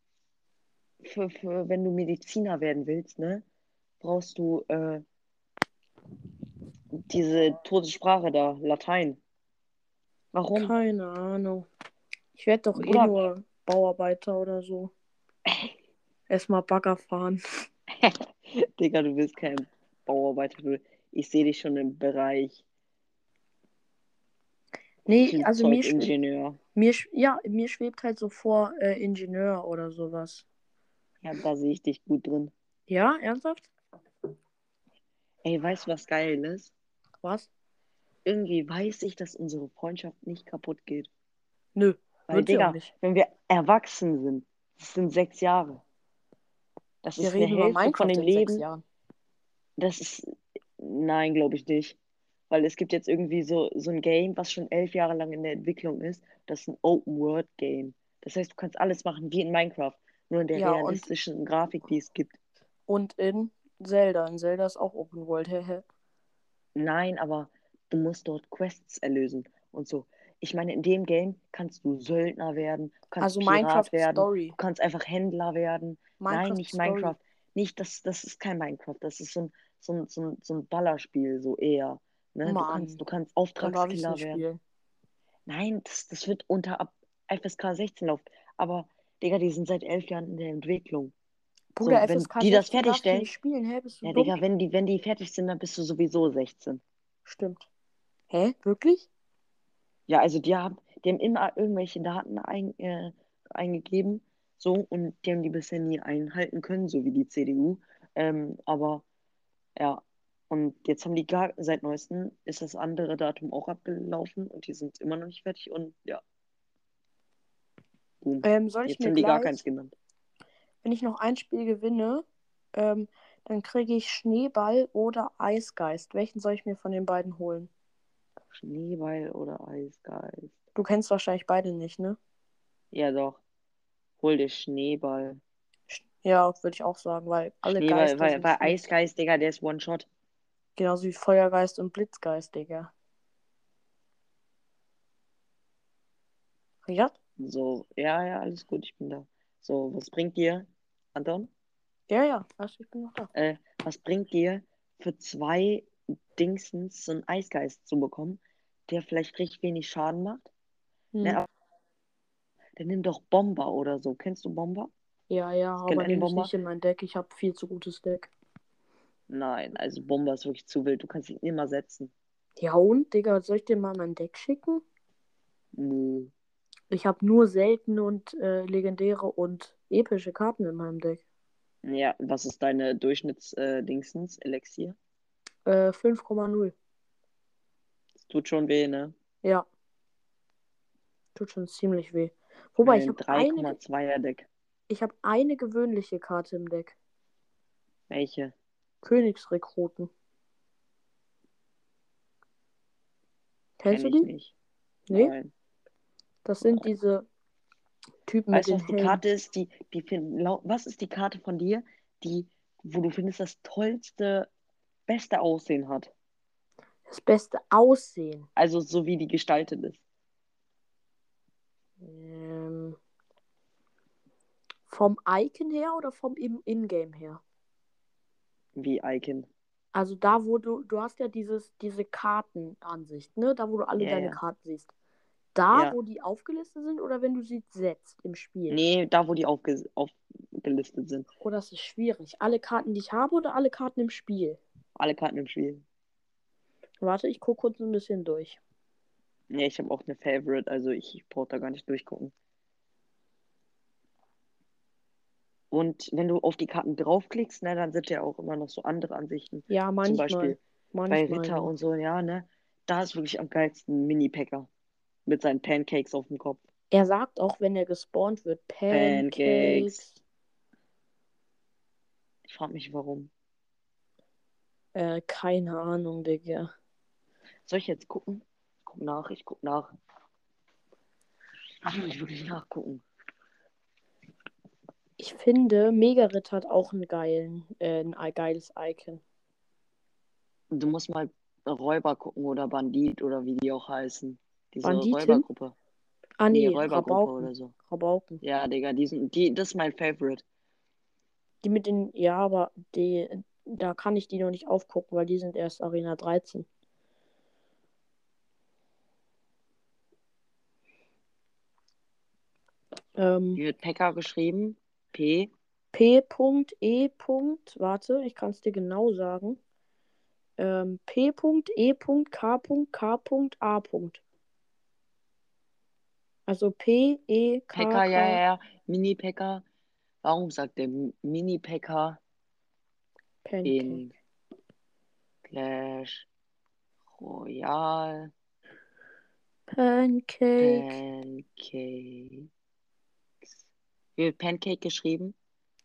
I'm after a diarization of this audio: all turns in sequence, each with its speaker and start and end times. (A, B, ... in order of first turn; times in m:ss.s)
0:01.0-0:03.4 A
0:04.0-0:05.0 A
0:07.0-0:09.2 A
0:10.3-0:10.7 A
0:10.5-0:11.7 B
0:12.4-0:14.9 B
0:12.8-0:13.2 A
0:16.3-0:17.4 B
0:17.9-0:22.6 A
0:25.1-0:26.1 B
0:25.2-0:26.6 A
0:26.8-0:30.5 B
0:31.2-0:32.5 A
0:32.9-0:33.7 B
0:35.4-0:36.7 A
0:37.2-0:37.5 B
0:38.2-0:41.1 A
0:41.8-0:42.9 B
0:42.3-0:45.8 A
0:47.0-0:48.6 A
0:47.2-0:48.8 B
0:49.8-0:52.0 A
0:52.5-1:02.4 A
1:00.5-1:01.1 B
1:02.9-1:05.8 B
1:06.8-1:24.4 A
1:13.2-1:14.6 B
1:16.2-1:17.2 B
1:22.4-1:23.0 B
1:23.6-1:24.6 B
1:25.5-1:31.1 A
1:31.8-1:34.4 B
1:31.8-1:33.3 A
1:34.0-1:36.8 A
1:37.3-1:37.7 B
1:38.3-1:39.1 B
1:40.1-1:49.0 A
1:49.8-1:56.2 A
1:58.2-2:00.0 A
1:58.4-1:59.6 B
2:00.8-2:07.7 B
2:08.5-2:10.6 A
2:10.8-2:12.2 B
2:12.9-2:13.4 A
2:14.2-2:15.4 A
2:15.9-2:18.9 B
2:17.6-2:20.1 A
2:20.8-2:22.9 B
2:26.8-2:27.2 B
2:27.4-2:31.5 A
2:32.1-2:33.3 B
2:33.3-2:40.5 A
2:41.1-2:41.4 B
2:41.2-2:41.5 A
2:42.8-2:44.9 A
2:45.3-2:48.3 B
2:45.8-2:46.5 A
2:49.3-2:52.1 A
2:52.6-2:54.8 B
2:55.8-2:56.3 A
2:56.9-3:01.2 B
3:01.8-3:05.0 A
3:05.7-3:06.7 B
3:08.2-3:09.1 A
3:11.4-3:13.8 B
3:12.8-3:14.5 A
3:14.9-3:17.0 B
3:18.1-3:18.5 A
3:19.0-3:20.1 B
3:23.8-3:24.3 B
3:23.9-3:24.5 A
3:25.1-3:25.3 B
3:25.1-3:25.5 A
3:26.4-3:27.3 B
3:28.3-3:29.2 B
3:28.5-3:34.5 A
3:35.1-3:36.1 A
3:37.1-3:38.5 B
3:38.6-3:40.0 A
3:42.0-3:43.0 B
3:44.9-3:47.4 B
3:48.8-3:49.5 A
3:49.9-3:54.9 B
3:54.0-3:54.4 A
3:55.6-3:58.8 B
3:55.7-3:56.0 A
3:58.7-4:01.3 A
4:01.4-4:04.6 B
4:05.0-4:05.8 A
4:07.0-4:08.6 B
4:09.5-4:12.3 A
4:15.7-4:20.6 A
4:19.7-4:21.7 B
4:21.1-4:24.7 A
4:25.3-4:26.6 A
4:26.9-4:30.2 B
4:28.9-4:30.0 A
4:32.5-4:33.3 A
4:34.9-4:36.7 B
4:37.7-4:39.9 A
4:41.8-4:43.0 A
4:45.2-4:49.2 B
4:50.7-4:55.8 A
4:54.8-4:55.5 B
4:56.4-4:58.4 B
4:56.5-4:57.7 A
4:58.4-5:00.4 A
5:01.6-5:06.7 B
5:13.2-5:13.6 B
5:13.6-5:15.5 A
5:15.9-5:19.6 B
5:20.6-5:24.2 B
5:26.5-5:28.4 B
5:27.7-5:29.6 A
5:30.2-5:32.2 A
5:33.4-5:34.0 B
5:33.6-5:34.1 A
5:35.4-5:36.3 A
5:37.2-5:38.3 A
5:39.7-5:41.0 B
5:40.6-5:42.5 A
5:44.2-5:45.4 A